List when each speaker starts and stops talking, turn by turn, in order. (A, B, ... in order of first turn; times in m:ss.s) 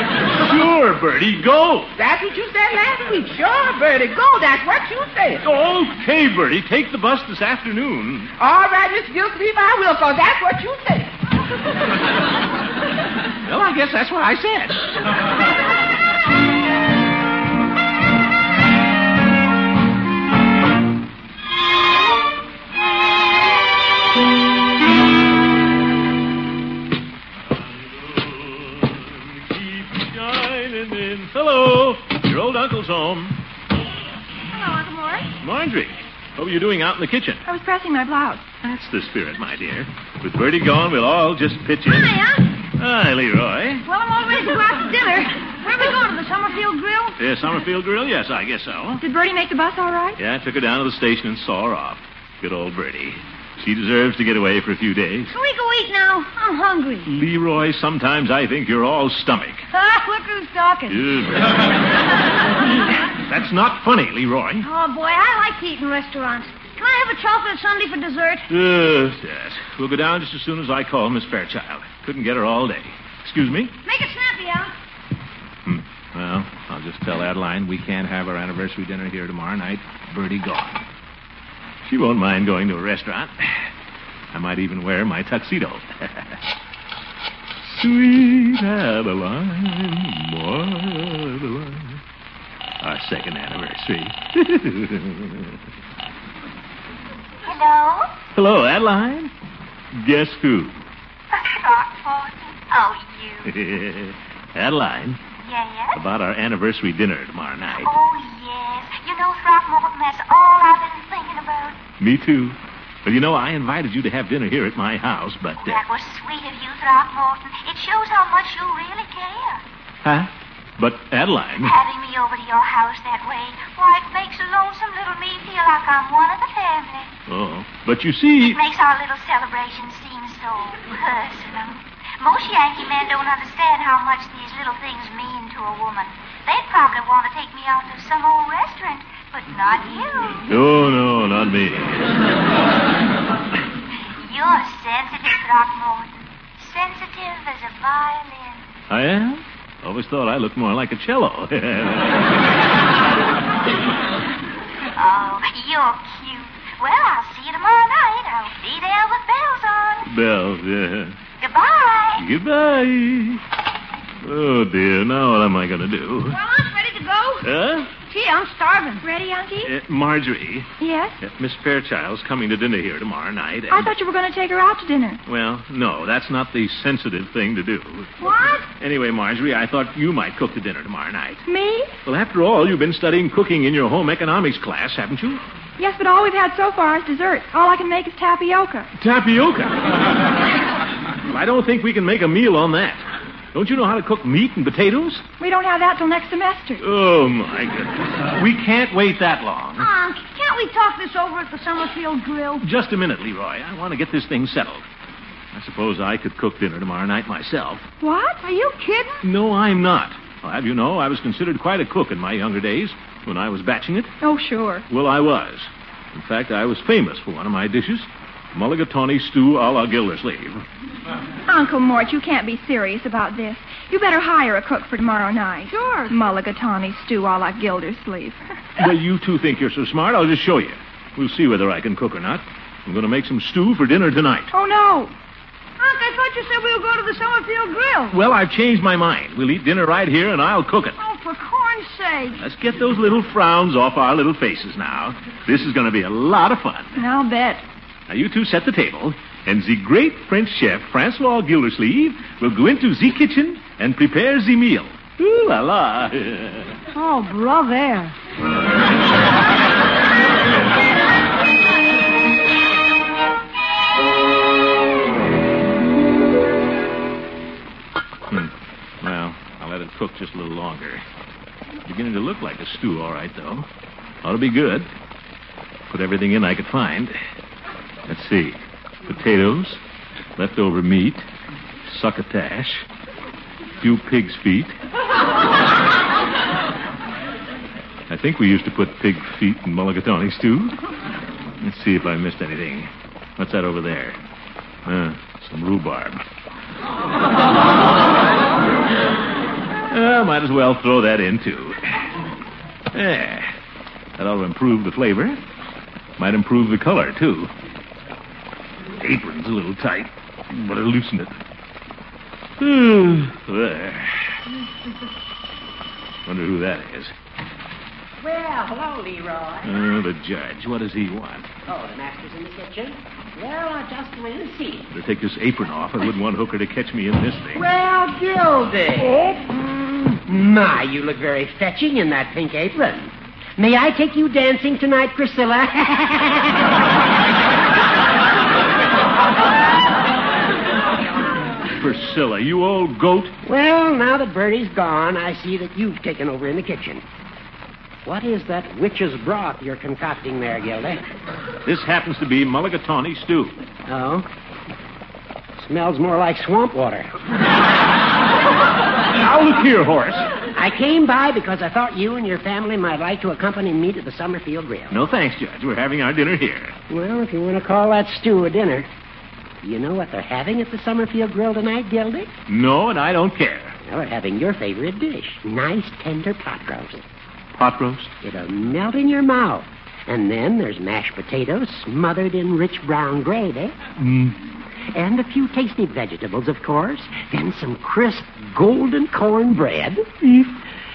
0:00.4-0:01.9 A
0:02.0-0:05.4 B
0:05.4-0:08.3 A
0:08.4-0:11.1 B
0:13.4-0:14.9 A
0:27.5-0:33.4 A
0:34.5-0:35.3 C
0:35.4-0:37.4 A
0:37.4-0:38.5 D
0:38.6-0:42.1 A
0:41.8-0:42.4 C
0:42.8-0:43.8 A
0:43.8-0:47.2 C
0:47.2-0:49.0 A
0:49.0-0:50.2 D
0:50.2-0:55.3 A
0:55.3-0:57.1 C
0:57.0-0:59.6 A
0:59.7-1:01.0 C
1:00.9-1:01.8 A
1:03.2-1:04.6 A
1:04.6-1:08.5 C
1:08.5-1:13.7 A
1:13.8-1:14.7 C
1:15.6-1:20.8 A
1:21.8-1:23.3 A
1:24.3-1:26.4 A
1:27.6-1:32.0 A
1:32.8-1:35.6 A
1:37.4-1:38.1 E
1:38.3-1:39.3 A
1:39.9-1:40.7 A
1:41.3-1:43.5 E
1:43.4-1:45.2 A
1:45.4-1:46.0 E
1:45.9-1:47.9 A
1:47.7-1:51.8 E
1:52.0-1:55.8 A
1:55.6-1:59.6 E
2:00.0-2:01.8 A
2:01.6-2:07.1 E
2:07.3-2:08.6 A
2:08.4-2:20.4 E
2:20.5-2:22.1 A
2:24.2-2:28.6 E
2:28.9-2:32.3 A
2:34.9-2:40.0 E
2:40.1-2:41.1 A
2:41.4-2:42.2 E
2:42.2-2:43.4 A
2:44.2-2:46.4 A
2:46.3-2:47.5 C
2:47.4-2:47.9 A
2:48.0-2:49.0 C
2:49.0-2:49.7 D
2:49.6-2:50.7 A
2:50.8-2:51.2 D
2:51.2-2:53.9 A
2:53.7-2:55.2 D
2:55.2-2:58.1 A
2:58.2-2:58.6 C
2:58.8-3:01.4 A
3:01.4-3:01.9 D
3:02.0-3:05.4 A
3:05.8-3:08.9 D
3:09.0-3:10.1 A
3:11.3-3:13.0 A
3:13.5-3:15.2 A
3:15.4-3:16.8 D
3:16.8-3:19.9 A
3:19.8-3:22.6 C
3:22.6-3:24.8 A
3:25.5-3:27.8 A
3:28.0-3:28.4 D
3:28.4-3:29.2 C
3:29.2-3:34.1 A
3:34.2-3:34.8 D
3:34.9-3:40.6 A
3:41.5-3:48.4 D
3:45.7-3:46.2 C
3:48.8-3:54.5 A
3:54.5-3:55.1 D
3:55.8-3:58.2 C
3:58.1-4:01.0 A
4:01.0-4:02.4 C
4:02.4-4:07.0 A
4:07.0-4:07.6 D
4:08.1-4:16.7 A
4:16.9-4:18.1 C
4:29.0-4:31.0 A
4:31.8-4:33.7 A
4:34.2-4:34.9 A
4:35.9-4:37.1 A
4:38.1-4:39.8 A
4:40.4-4:41.2 A
4:41.9-4:42.8 A
4:43.8-4:44.7 A
4:48.1-4:50.8 A
4:51.6-4:54.2 A
4:54.8-4:56.2 A
4:59.9-5:01.9 A
5:02.9-5:03.5 A
5:04.2-5:05.4 A
5:06.2-5:07.5 A
5:09.0-5:11.3 A
5:12.6-5:14.3 A
5:16.2-5:17.1 A
5:18.2-5:19.8 F
5:19.6-5:21.5 A
5:21.7-5:24.9 F
5:24.9-5:27.6 A
5:27.5-5:36.7 F
5:41.8-5:43.3 A
5:43.4-5:47.0 F
5:48.0-5:51.0 F
5:51.6-5:53.5 A
5:53.9-5:54.3 F
5:55.6-5:57.1 F
5:59.2-6:00.3 A
6:00.5-6:05.0 F
6:04.9-6:06.7 A
6:06.9-6:08.9 F
6:09.6-6:12.3 F
6:12.5-6:13.8 A
6:13.8-6:17.0 F
6:17.5-6:18.1 A
6:18.2-6:23.8 F
6:24.0-6:24.4 A
6:24.9-6:30.5 F